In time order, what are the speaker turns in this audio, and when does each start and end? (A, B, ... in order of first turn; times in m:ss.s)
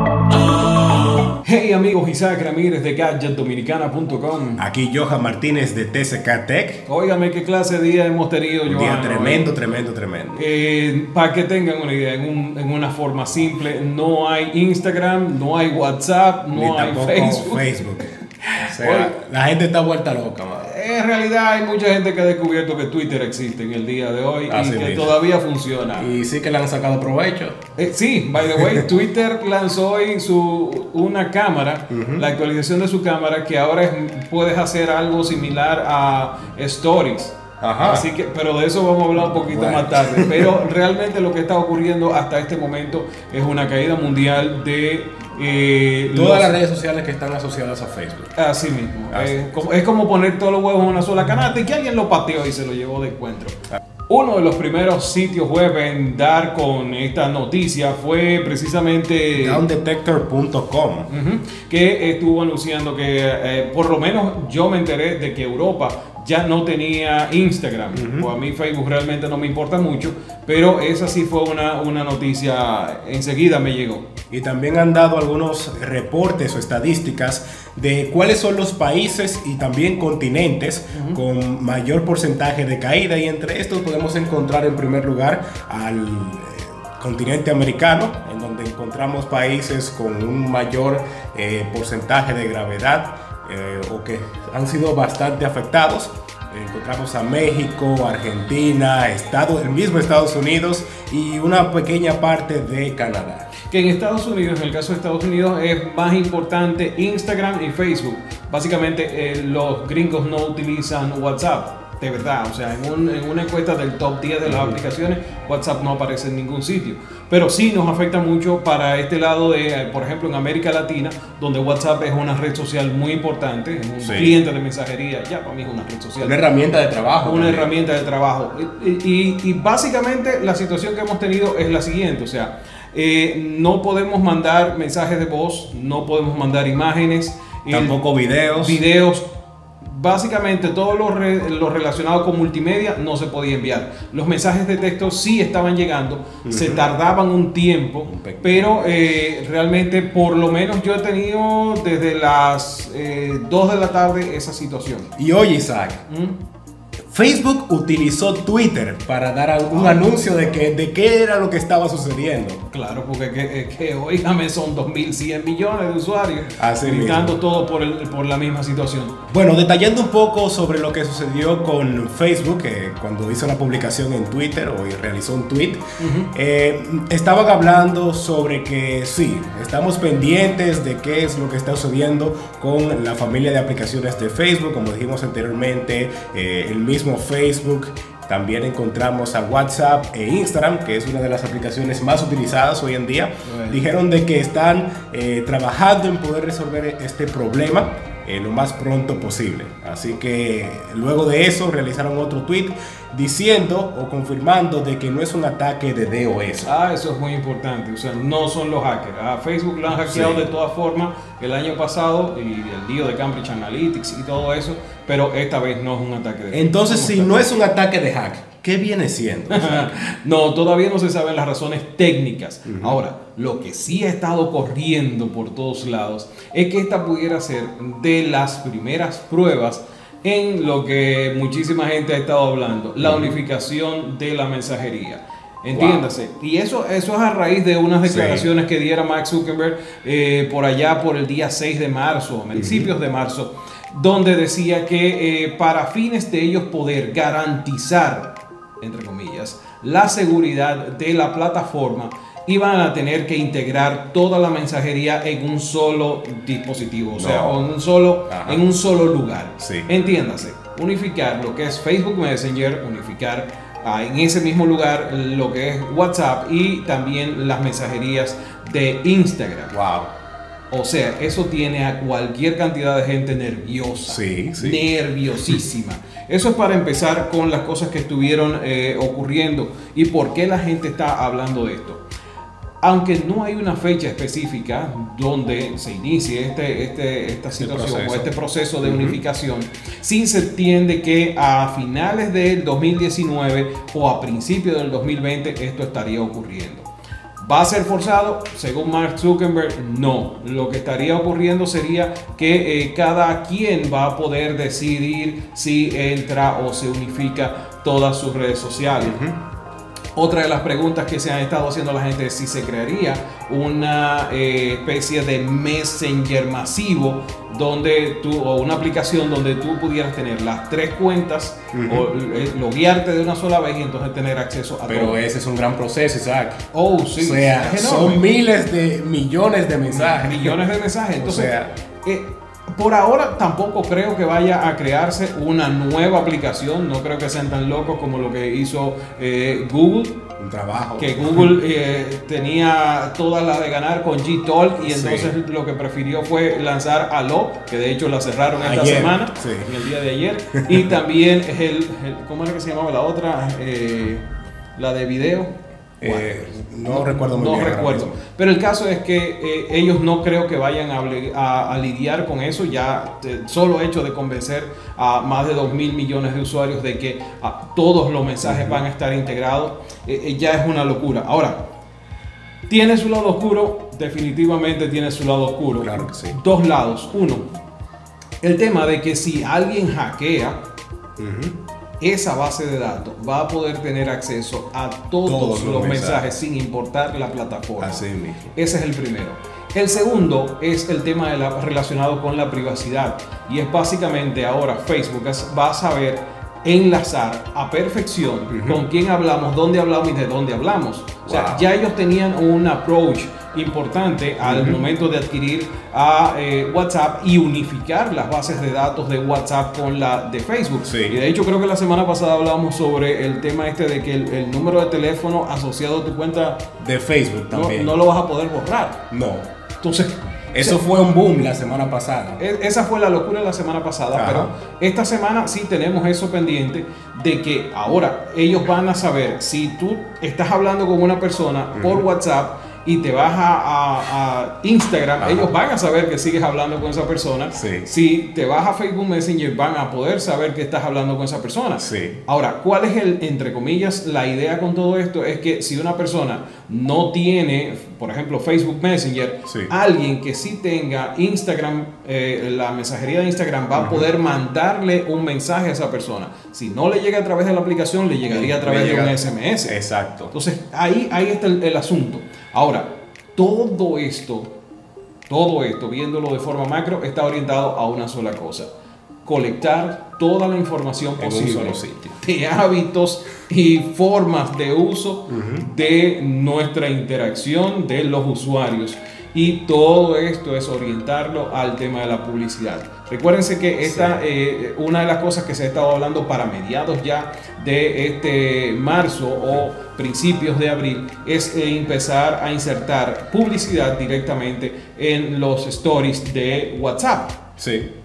0:01.4-0:04.6 A
0:04.6-0:06.8 B
0:06.9-0:09.5 A
0:08.7-0:10.4 B
0:10.4-0:19.1 A
0:16.5-0:20.7 B
0:20.6-0:26.1 A
0:24.5-0:25.2 B
0:26.0-0:27.6 B
0:27.8-0:46.6 A
0:28.4-0:28.9 B
0:31.9-0:32.2 B
0:37.6-0:38.1 B
0:39.2-0:40.5 B
0:46.1-0:48.3 B
0:48.4-0:53.6 A
0:49.1-0:49.6 B
0:54.1-0:59.6 A
0:59.4-1:01.1 B
1:01.1-1:14.1 A
1:07.9-1:08.3 B
1:14.3-1:43.5 B
1:20.9-1:21.2 A
1:43.7-2:06.4 A
1:54.5-1:54.8 B
2:04.0-2:04.4 B
2:06.2-2:07.7 B
2:07.2-2:18.0 A
2:17.7-2:18.8 B
2:18.6-2:19.3 A
2:19.8-2:35.1 A
2:26.4-2:26.9 B
2:28.1-2:29.0 B
2:35.2-2:36.0 B
2:36.1-2:36.4 A
2:37.1-2:42.6 B
2:39.7-2:40.3 A
2:42.7-2:49.2 A
2:46.6-2:47.4 B
2:49.3-2:55.8 B
2:56.0-2:56.3 A
2:56.3-3:26.7 B
3:13.4-3:13.8 A
3:26.6-3:37.5 A
3:29.9-3:30.5 B
3:36.5-3:40.0 B
3:39.5-4:29.7 A
3:42.7-3:43.0 B
3:53.0-3:53.3 B
3:55.7-3:56.1 B
3:58.1-3:58.5 B
4:02.6-4:02.9 B
4:17.2-4:17.7 B
4:18.3-4:18.7 B
4:19.6-4:19.9 B
4:29.7-4:30.1 B
4:30.7-4:42.0 A
4:34.1-4:34.8 B
4:42.8-4:56.9 A
4:47.6-4:48.3 B
4:48.8-4:49.2 B
4:57.4-5:09.2 A
5:09.0-5:09.4 B
5:10.2-5:25.2 A
5:21.7-5:22.1 B
5:24.9-5:26.6 B
5:26.7-5:28.2 A
5:27.2-5:30.6 B
5:29.9-5:31.5 A
5:31.2-5:31.7 B
5:32.0-5:40.2 A
5:40.4-5:41.5 B
5:41.0-5:54.2 A
5:44.8-5:45.3 B
5:48.6-5:49.7 B
5:50.5-5:51.0 B
5:54.8-6:11.6 A
5:56.0-5:58.1 B
6:08.4-6:08.8 B
6:12.7-6:17.5 A
6:15.8-6:16.4 B
6:18.4-6:20.6 A
6:21.2-6:21.6 B
6:22.0-6:28.0 A
6:25.3-6:26.3 B
6:27.8-6:28.5 B
6:28.6-6:56.6 A
6:38.5-6:38.8 B
6:41.3-6:41.6 B
6:44.4-6:44.8 B
6:50.8-6:51.2 B
6:56.8-6:57.9 B
6:57.5-6:59.0 A
6:59.1-6:59.5 B
6:59.8-7:00.8 A
7:00.5-7:02.4 B
7:02.4-7:39.8 A
7:04.1-7:04.5 B
7:11.8-7:12.0 B
7:15.2-7:15.5 B
7:17.5-7:17.9 B
7:21.8-7:22.2 B
7:33.7-7:34.1 B
7:38.3-7:40.3 B
7:40.3-7:44.5 A
7:45.3-7:48.7 A
7:49.2-8:17.4 A
7:51.2-7:52.2 B
7:55.3-7:55.7 B
8:03.8-8:04.2 B
8:17.6-8:17.9 B